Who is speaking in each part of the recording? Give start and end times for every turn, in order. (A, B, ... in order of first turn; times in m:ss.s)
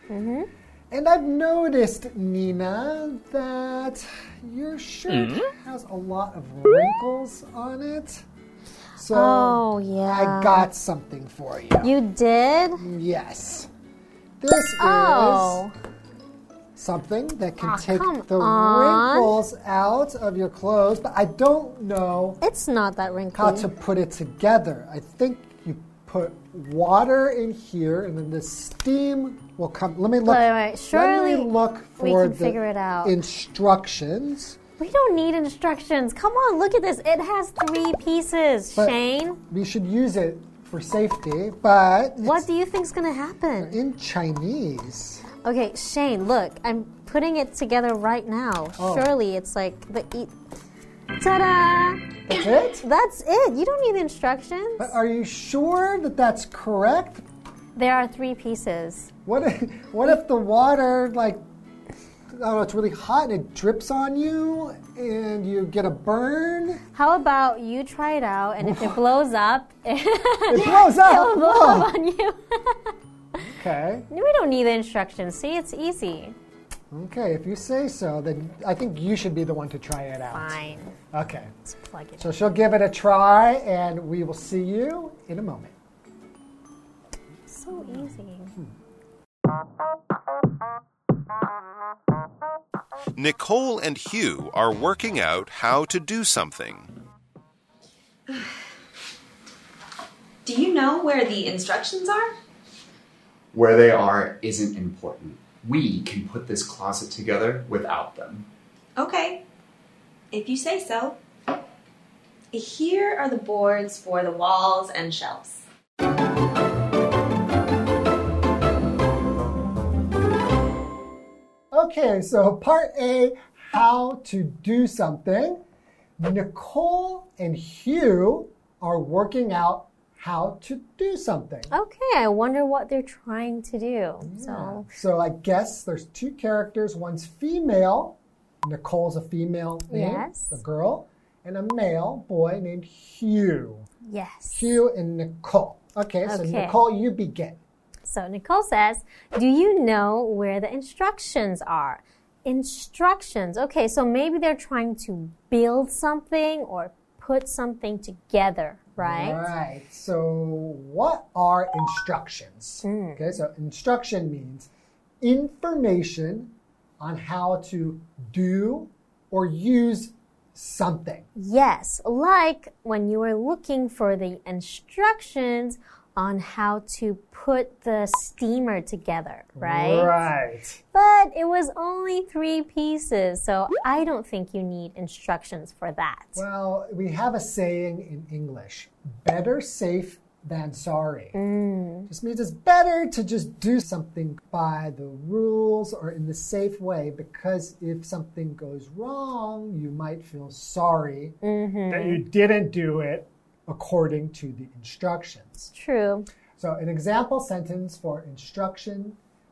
0:00.1-0:00.5 A
0:00.9-0:08.2 B
0:09.0-0:11.9 B
0:09.1-0:10.7 A
0:11.8-0:12.8 A
0:12.8-0:13.7 B
0:14.4-0:15.7 B
0:14.8-0:15.7 A
0:16.8-0:22.4 B
0:17.6-0:19.4 A
0:22.4-0:23.7 A
0:23.3-0:34.6 B
0:30.2-0:33.2 A
0:34.8-0:39.4 A
0:38.7-0:42.4 B
0:42.2-0:43.8 A
0:43.6-0:45.2 B
0:45.4-0:50.3 A
0:48.8-0:49.1 B
0:51.2-0:54.9 A
0:52.3-0:52.8 B
0:54.8-0:57.2 B
0:57.7-0:59.1 A
0:59.2-1:01.4 B
1:02.3-1:06.8 B
1:06.9-1:12.9 A
1:08.6-1:09.0 B
1:10.5-1:11.9 B
1:13.4-1:14.1 B
1:14.1-1:16.4 A
1:16.9-1:20.6 B
1:20.2-1:21.0 A
1:21.1-1:21.5 B
1:21.6-1:22.3 A
1:22.2-1:25.7 B
1:27.5-1:28.5 A
1:33.2-1:36.9 C
1:40.4-1:42.3 D
1:43.5-1:48.5 E
1:49.0-1:49.4 D
1:50.3-1:51.2 D
1:52.5-1:55.6 D
2:01.7-2:05.6 B
2:06.2-2:11.7 B
2:11.7-2:14.9 A
2:14.2-2:23.8 B
2:19.9-2:20.6 A
2:24.0-2:24.8 A
2:24.5-2:27.6 B
2:26.2-2:26.8 A
2:28.0-2:39.5 A
2:39.0-2:44.7 B
2:42.8-2:43.4 A
2:45.2-2:51.2 B
2:51.4-3:00.2 A
2:59.6-3:00.8 B
3:00.9-3:06.4 A
3:06.4-3:11.4 B
3:11.3-3:12.1 A
3:12.1-3:21.4 B
3:21.4-3:22.2 A
3:21.9-3:25.7 B
3:25.7-3:26.3 A
3:26.6-3:29.2 B